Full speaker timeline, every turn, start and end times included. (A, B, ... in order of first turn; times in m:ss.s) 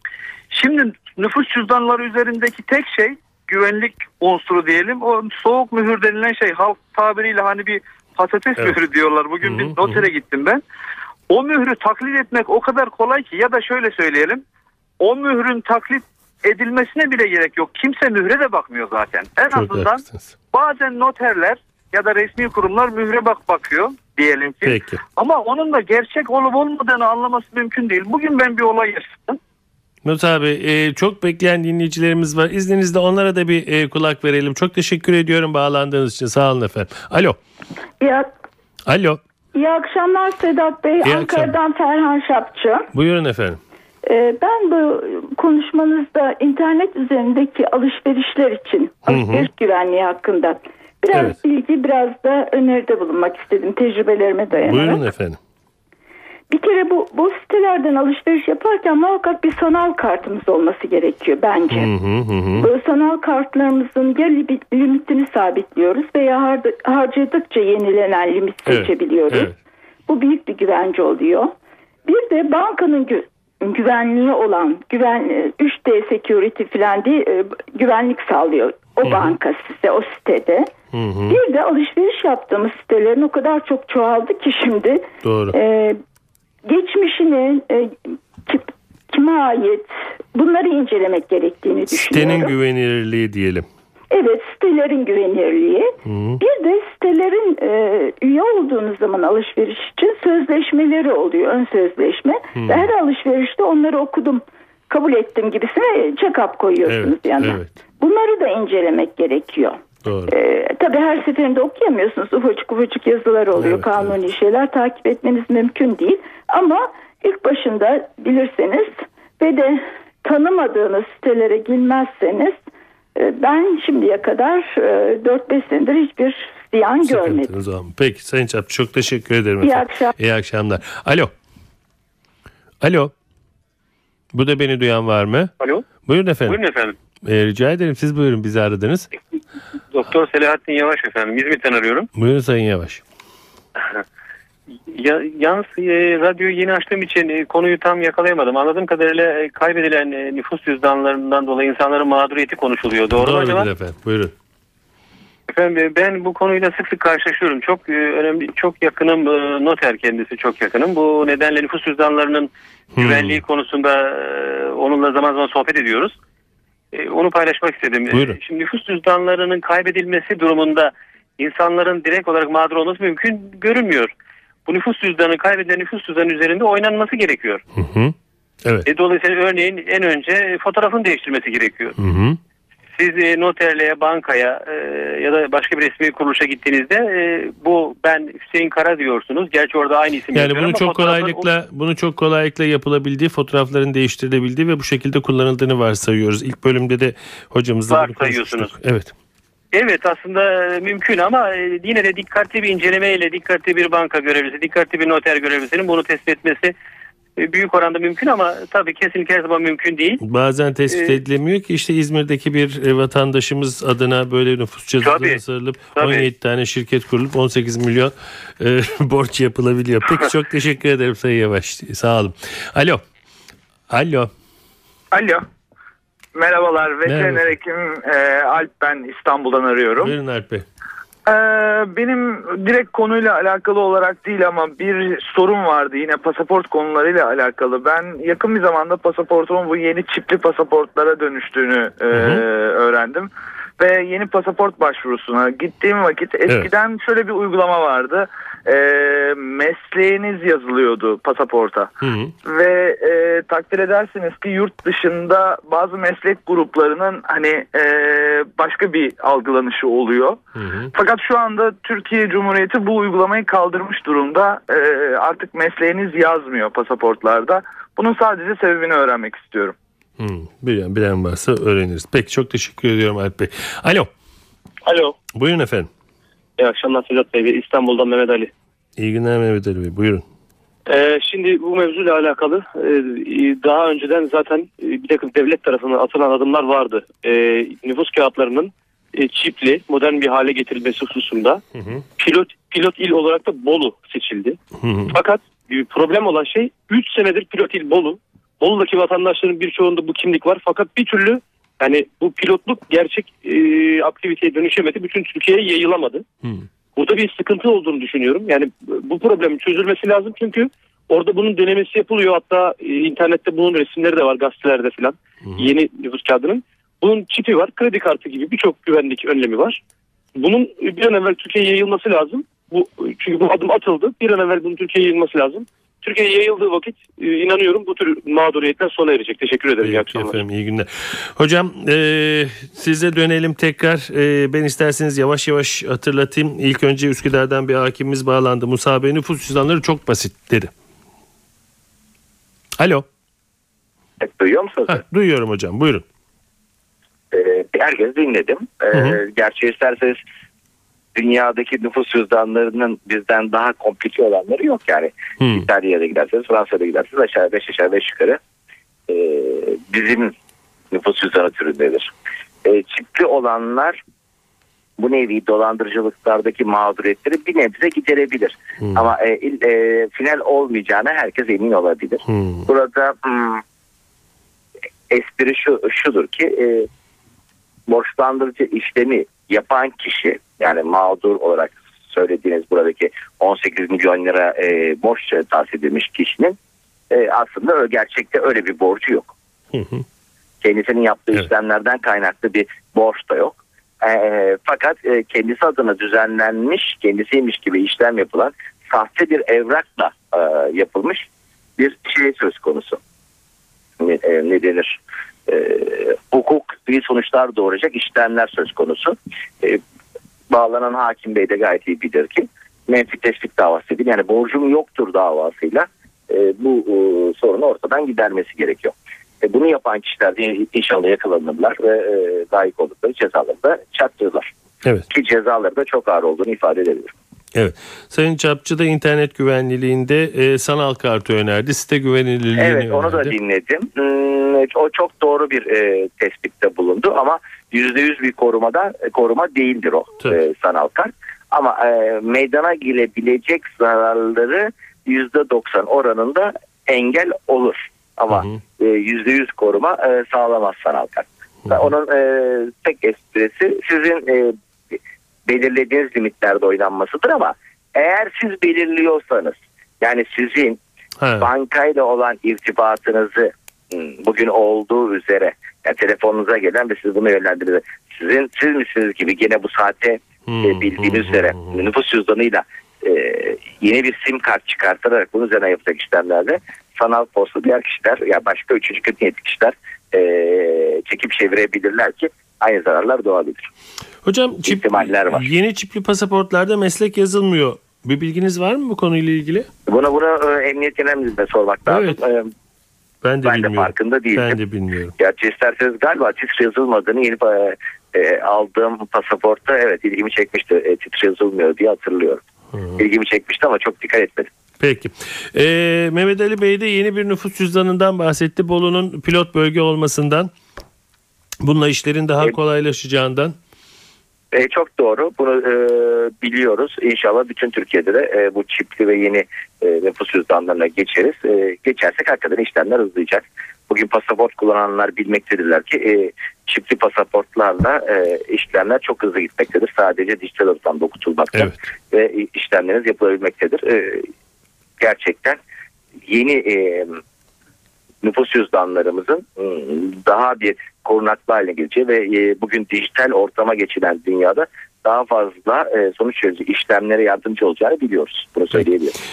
0:00.5-0:10.6 A
0:09.4-0:10.1 B
0:11.3-0:14.4 A
0:15.0-0:29.4 A
0:19.5-0:20.3 B
0:24.6-0:25.0 B
0:30.0-0:37.4 B
0:38.0-0:38.3 C
0:38.9-0:39.2 B
0:39.5-0:42.9 C
0:41.0-0:41.6 B
0:42.9-0:43.6 B
0:44.0-0:55.0 C
0:49.0-0:49.5 B
0:54.6-0:55.4 B
0:56.5-1:01.9 C
1:01.7-1:02.7 B
1:02.6-1:09.5 C
1:08.7-1:09.5 B
1:10.1-1:11.5 C
1:12.0-1:20.7 C
1:19.0-1:19.4 B
1:20.9-1:21.4 B
1:21.3-1:26.0 C
1:25.2-1:25.6 B
1:26.6-1:27.9 C
1:28.4-1:32.5 C
1:31.9-1:33.6 B
1:34.1-2:02.6 C
1:36.0-1:36.4 B
1:42.6-1:42.9 B
1:46.8-1:47.8 B
1:50.0-1:50.3 B
1:53.5-1:54.1 B
2:03.2-2:07.5 C
2:07.0-2:11.3 B
2:09.6-2:10.1 C
2:12.8-2:13.1 B
2:14.3-2:15.5 B
2:15.6-2:15.8 D
2:16.0-2:16.6 B
2:16.5-2:17.0 D
2:17.2-2:19.1 B
2:19.9-2:22.1 D
2:22.1-2:23.0 B
2:24.9-2:33.7 D
2:33.2-2:34.3 B
2:35.5-2:46.2 D
2:43.0-2:43.4 B
2:46.9-2:54.1 D
2:48.1-2:48.4 B
2:54.6-2:57.6 D
2:57.7-2:58.9 B
2:58.8-3:02.0 D
3:02.0-3:02.4 B
3:02.9-3:11.5 D
3:10.3-3:19.1 B
3:17.9-3:18.7 D
3:19.7-3:26.7 D
3:27.4-3:30.2 D
3:30.2-3:43.0 B
3:30.9-3:31.2 D
3:35.0-3:35.4 D
3:35.9-3:36.3 D
3:43.9-3:44.3 B
3:45.1-3:45.4 E
3:46.3-3:50.1 E
3:47.0-3:47.5 B
3:50.0-3:50.6 B
3:51.2-4:11.9 E
4:02.1-4:02.4 B
4:12.0-4:12.3 B
4:12.4-4:20.4 E
4:20.6-4:20.9 B
4:20.9-4:29.7 E
4:30.2-4:34.1 B
4:34.8-4:35.2 F
4:35.3-4:35.9 B
4:36.6-4:38.5 F
4:39.0-4:40.2 B
4:40.8-4:51.6 F
4:52.2-4:54.6 F
4:54.8-4:55.1 B
4:55.1-5:06.2 F
5:07.0-5:19.8 F
5:20.4-5:30.4 F
5:29.8-5:40.7 B
5:42.8-5:43.0 B
5:44.2-5:45.0 G
5:44.9-5:46.0 B
5:47.3-5:50.2 G
5:48.9-5:49.2 B
5:51.1-5:58.4 G
5:55.4-5:55.7 B
5:59.1-6:00.3 G
6:00.9-6:02.1 G
6:02.6-6:04.0 G
6:05.0-6:13.6 G
6:12.3-6:12.6 B
6:15.1-6:16.9 G
6:17.9-6:26.6 G
6:27.1-6:29.3 G
6:29.7-6:30.0 B
6:30.6-6:41.3 G
6:41.8-6:43.0 G
6:44.0-6:49.8 G
6:50.5-7:04.5 G
7:05.1-7:07.1 G
7:07.5-7:13.3 B
7:12.6-7:40.8 G
7:28.3-7:28.6 B
7:41.2-7:41.5 B
7:41.4-8:03.7 G
7:50.5-7:51.8 B
8:04.2-8:09.7 B
8:04.6-8:05.4 G
8:09.9-8:12.5 G
8:11.9-8:12.2 B
8:13.2-8:15.1 B
8:13.4-8:14.6 G
8:15.2-8:22.4 G
8:22.7-8:23.0 B
8:23.0-8:24.5 G
8:24.8-8:30.5 B
8:31.6-8:33.5 B
8:34.5-8:54.3 G
8:55.0-8:55.6 G
8:56.3-8:57.2 G
8:58.2-9:09.1 G